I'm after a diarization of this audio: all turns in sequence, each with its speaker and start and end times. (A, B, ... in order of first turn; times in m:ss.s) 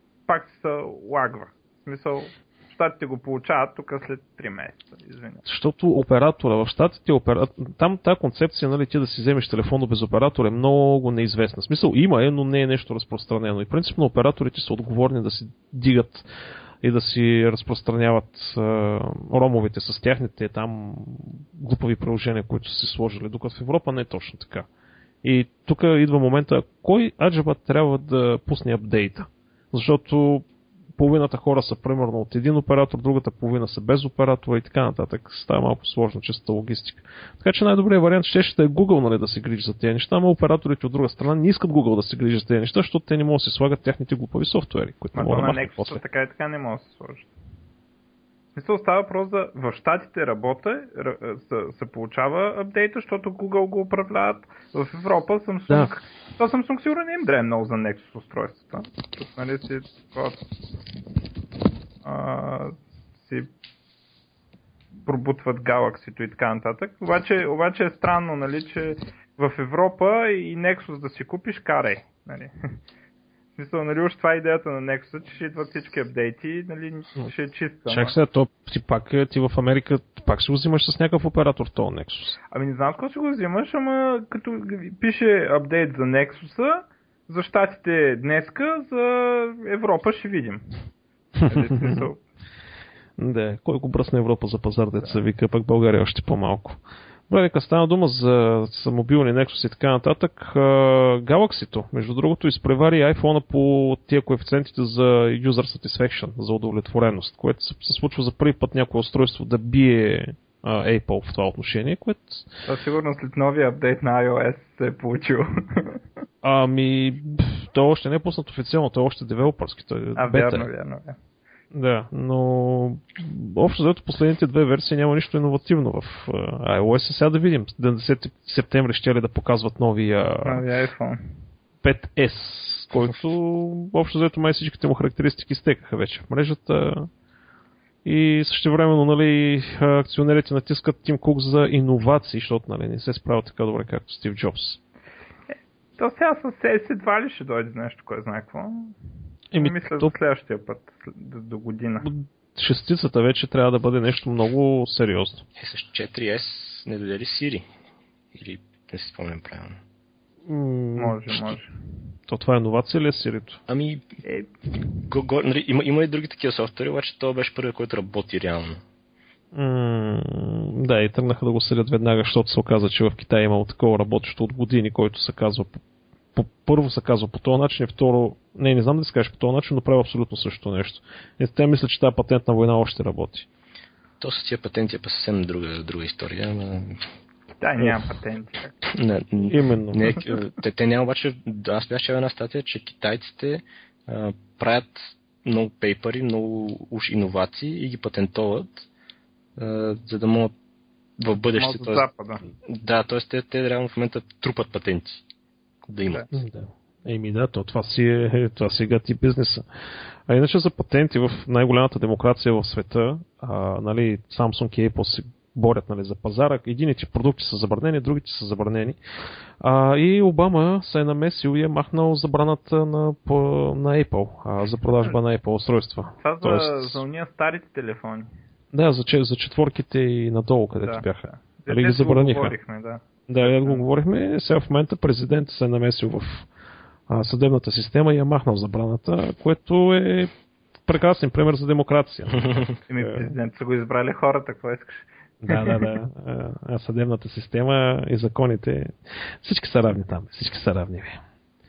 0:00.3-0:05.4 A
0:05.4-0:16.3 B
0:16.8-0:24.7 B
0:25.2-0:30.5 B
0:31.0-0:46.0 B
0:45.2-0:47.3 A
0:48.6-1:00.4 A
1:02.0-1:03.5 A
1:05.0-1:12.5 A
1:13.6-1:18.2 A
1:17.9-1:22.4 B
1:22.5-1:30.8 A
1:31.4-1:32.1 B
1:31.5-1:32.2 A
1:33.2-1:52.5 B
1:52.7-1:56.0 A
1:56.4-2:00.7 B
2:00.2-2:01.2 A
2:01.7-2:10.6 B
2:10.4-2:11.2 A
2:11.8-2:17.1 B
2:18.0-2:24.8 B
2:26.0-2:28.9 A
2:29.5-2:30.1 B
2:29.6-2:32.1 A
2:32.0-2:35.4 B
2:35.6-2:37.6 C
2:38.3-2:39.8 C
2:40.5-2:41.4 B
2:41.0-2:41.7 A
2:42.3-2:43.6 B
2:43.7-2:44.1 C
2:44.2-2:44.5 A
2:45.1-2:48.8 C
2:49.5-2:55.8 B
2:56.4-3:03.5 B
3:04.2-3:07.0 C
3:07.6-3:08.7 A
3:08.8-3:18.9 C
3:09.5-3:10.2 B
3:19.6-3:20.5 C
3:21.2-3:22.1 C
3:21.6-3:22.4 A
3:22.7-3:25.2 C
3:25.9-3:26.3 C
3:26.3-3:29.6 B
3:30.3-3:39.0 B
3:39.6-3:47.0 B
3:46.2-3:48.3 A
3:48.7-3:52.5 B
3:50.8-3:53.9 A
3:53.3-3:56.5 B
3:57.1-4:00.3 B
4:00.9-4:03.3 B
4:02.9-4:05.9 A
4:05.4-4:11.2 B